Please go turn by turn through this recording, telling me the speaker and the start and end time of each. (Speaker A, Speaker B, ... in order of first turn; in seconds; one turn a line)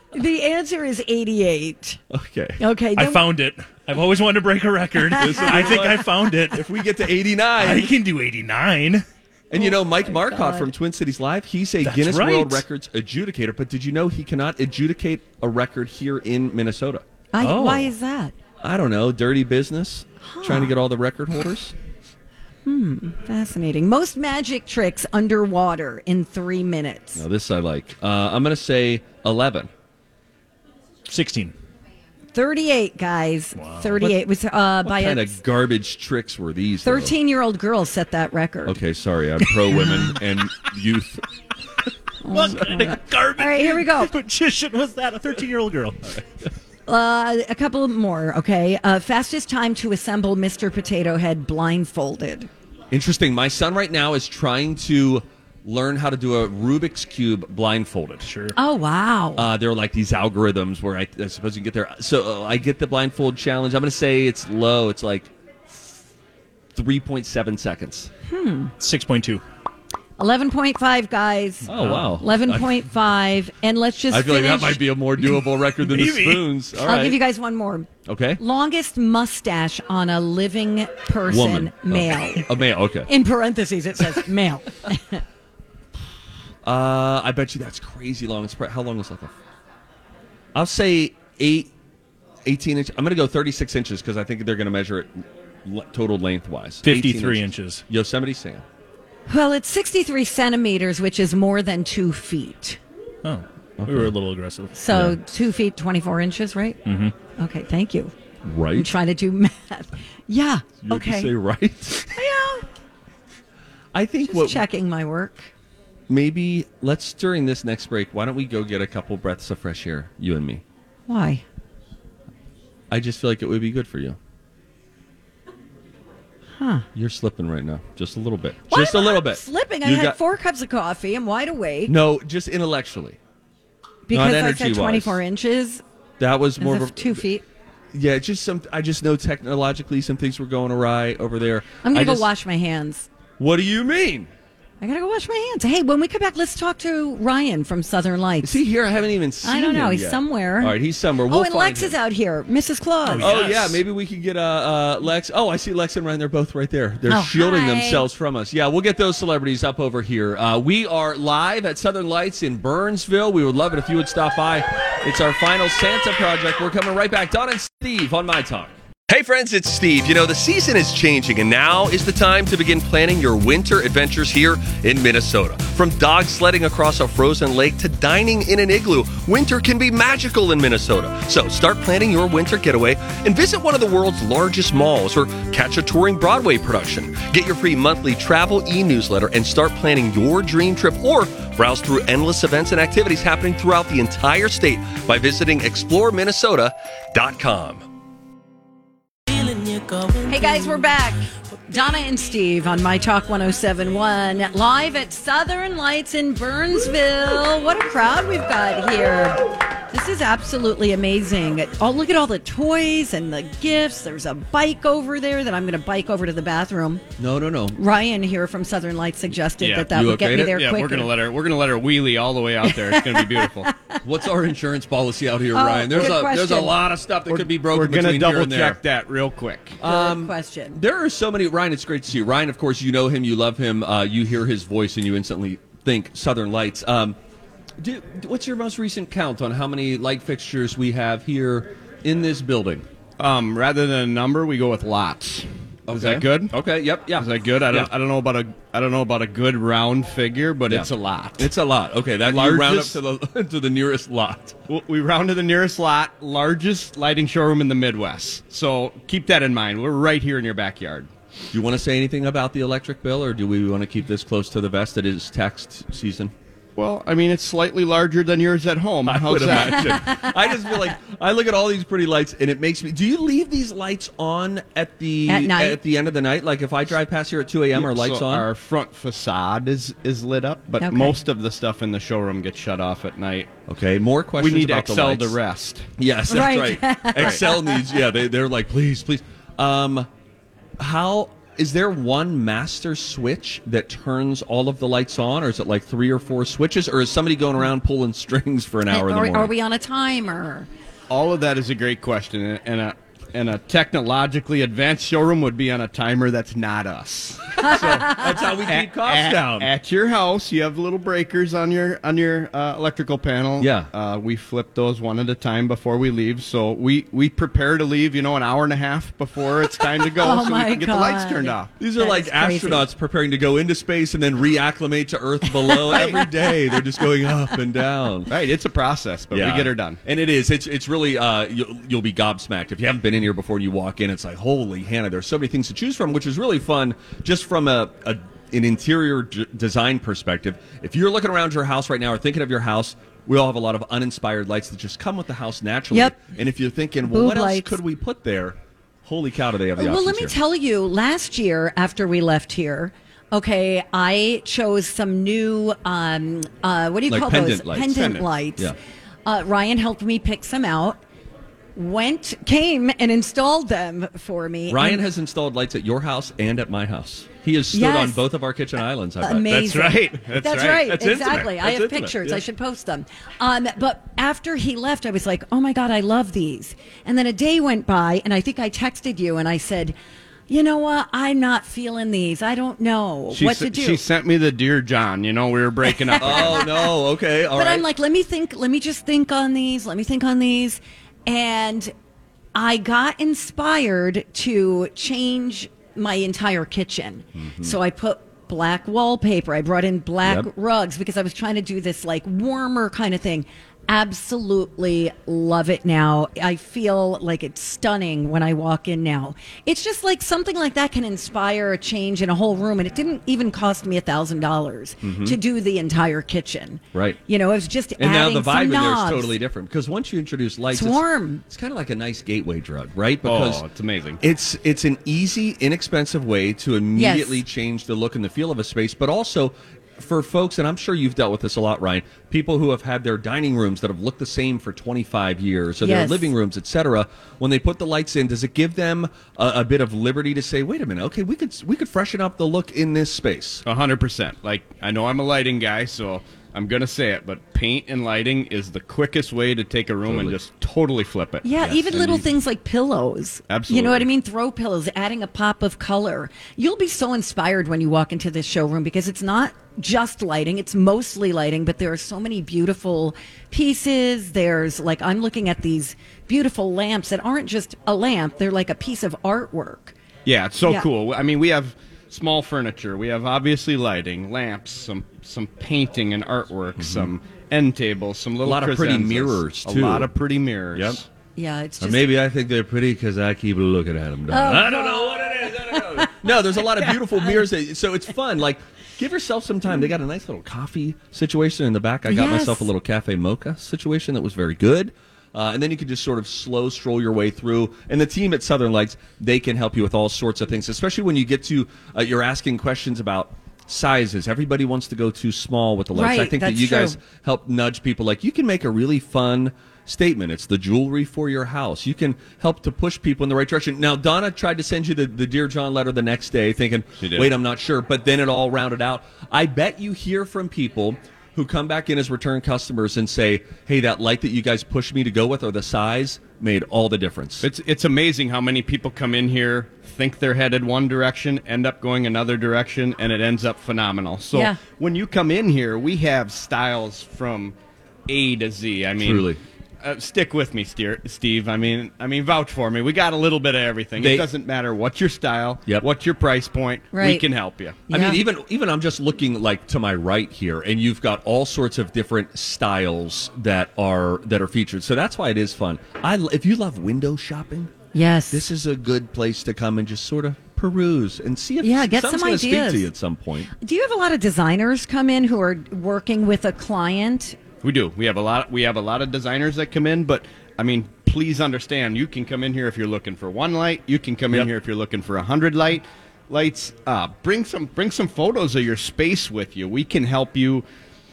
Speaker A: 0.1-2.0
Speaker B: 2.1-2.6
Speaker A: 2.6-3.3
Speaker C: 3.0-6.6
Speaker B: 5.2-7.9
Speaker A: 5.2-5.7
Speaker C: 7.6-9.1
Speaker B: 9.5-17.1
Speaker A: 9.6-10.7
Speaker C: 11.8-12.6
Speaker A: 17.3-18.3
Speaker C: 17.4-17.9
Speaker B: 18.6-21.8
Speaker A: 20.2-20.7
Speaker A: 22.7-27.2
Speaker B: 27.1-29.7
Speaker C: 31.1-31.6
Speaker A: 32.3-35.4
Speaker C: 33.6-34.0
Speaker B: 34.8-37.2
Speaker A: 36.8-38.8
Speaker B: 38.6-41.3
Speaker A: 42.2-44.1
Speaker C: 42.3-46.2
Speaker A: 46.9-52.5
Speaker B: 52.9-58.3
Speaker C: 58.2-58.5
Speaker A: 58.5-59.5
Speaker B: 59.4-65.9
Speaker B: 66.7-68.1
Speaker A: 68.3-68.7
Speaker C: 68.8-69.4
Speaker A: 70.2-74.8
Speaker B: 71.7-72.8
Speaker C: 71.7-72.1
Speaker B: 74.1-77.2
Speaker C: 75.8-76.5
Speaker A: 76.8-82.5
Speaker B: 78.1-78.4
Speaker B: 81.2-83.1
Speaker A: 83.1-85.2
Speaker B: 86.6-89.3
Speaker B: 90.5-91.7
Speaker B: 92.5-98.6
Speaker C: 96.8-97.8
Speaker A: 99.3-102.8
Speaker C: 103.2-105.2
Speaker B: 103.8-104.1
Speaker A: 104.8-106.8
Speaker C: 106.9-107.1
Speaker A: 107.4-108.1
Speaker B: 108.4-108.9
Speaker A: 108.7-111.3
Speaker B: 110.9-112.1
Speaker A: 112.1-112.7
Speaker B: 113.9-114.7
Speaker A: 114.3-115.5
Speaker B: 116.1-120.6
Speaker A: 121.1-121.4
Speaker B: 122.9-124.2
Speaker A: 126.6-126.9
Speaker B: 126.9-130.2
Speaker A: 128.7-131.9
Speaker B: 131.8-133.2
Speaker A: 134.1-135.8
Speaker B: 134.1-135.2
Speaker B: 136.2-137.3
Speaker A: 136.6-137.4
Speaker B: 137.9-142.3
Speaker A: 141.8-143.1
Speaker B: 143.4-144.3
Speaker A: 144.8-148.6
Speaker B: 148.4-151.9
Speaker A: 149.4-153.3
Speaker C: 153.1-153.8
Speaker B: 153.2-197.9
Speaker A: 157.1-158.1
Speaker A: 200.2-217.0
Speaker B: 217.2-217.8
Speaker A: 217.7-221.1
Speaker D: 219.6-223.7
Speaker B: 219.9-220.7
Speaker A: 222.7-224.0
Speaker B: 224.0-228.8
Speaker A: 225.5-226.8
Speaker D: 227.3-229.8
Speaker B: 229.8-237.2
Speaker A: 229.8-230.8
Speaker B: 237.8-242.9
Speaker D: 243.2-246.6
Speaker B: 245.9-247.9
Speaker D: 247.2-251.5
Speaker B: 250.7-254.6
Speaker D: 252.2-253.0
Speaker D: 254.7-261.1
Speaker B: 261.5-266.3
Speaker D: 266.8-270.1
Speaker B: 269.0-278.5
Speaker A: 270.0-270.3
Speaker A: 275.3-275.8
Speaker D: 277.7-283.5
Speaker A: 280.8-281.2
Speaker B: 283.7-285.4
Speaker D: 284.4-285.9
Speaker B: 286.0-290.1
Speaker A: 286.3-287.8
Speaker B: 290.8-299.5
Speaker A: 298.9-300.7
Speaker D: 301.1-321.7
Speaker A: 307.6-308.3
Speaker B: 307.6-309.7
Speaker B: 313.6-313.9
Speaker A: 320.0-322.9
Speaker B: 321.8-328.3
Speaker A: 325.5-326.2
Speaker D: 325.9-326.3
Speaker D: 328.3-330.0
Speaker B: 329.3-350.4
Speaker A: 345.9-346.2
Speaker A: 347.0-347.8
Speaker A: 349.8-361.0
Speaker B: 357.1-358.8
Speaker A: 361.8-365.0
Speaker B: 364.7-370.0
Speaker A: 367.7-368.2
Speaker A: 369.2-379.9
Speaker D: 369.5-371.5
Speaker B: 371.0-372.4
Speaker A: 380.5-384.0
Speaker D: 383.3-386.7
Speaker A: 385.9-386.9
Speaker B: 386.2-387.9
Speaker A: 387.5-391.9
Speaker A: 392.6-419.4
Speaker B: 397.4-397.8
Speaker B: 415.0-415.4
Speaker B: 416.9-417.2
Speaker B: 418.0-423.6
Speaker A: 420.7-421.4
Speaker D: 423.2-424.2
Speaker B: 424.2-443.6
Speaker A: 426.9-427.4
Speaker A: 435.8-436.3
Speaker D: 443.6-452.2
Speaker B: 450.1-450.4
Speaker A: 451.4-469.9
Speaker D: 453.5-454.1
Speaker D: 470.3-481.1
Speaker B: 476.8-477.1
Speaker B: 478.4-480.1
Speaker B: 480.7-481.0
Speaker A: 481.4-482.1
Speaker B: 481.8-527.5
Speaker A: 484.3-486.2
Speaker A: 486.9-487.3
Speaker A: 492.1-492.7
Speaker A: 505.9-507.0
Speaker D: 517.0-517.3
Speaker D: 527.4-537.6
Speaker A: 534.3-534.6
Speaker D: 538.1-547.9
Speaker B: 539.0-539.4
Speaker B: 544.0-544.3
Speaker A: 546.9-547.3
Speaker A: 547.9-548.2
Speaker B: 547.9-557.7
Speaker A: 557.9-558.5
Speaker B: 558.3-563.5
Speaker A: 561.6-562.9
Speaker A: 563.6-567.4
Speaker D: 567.6-580.6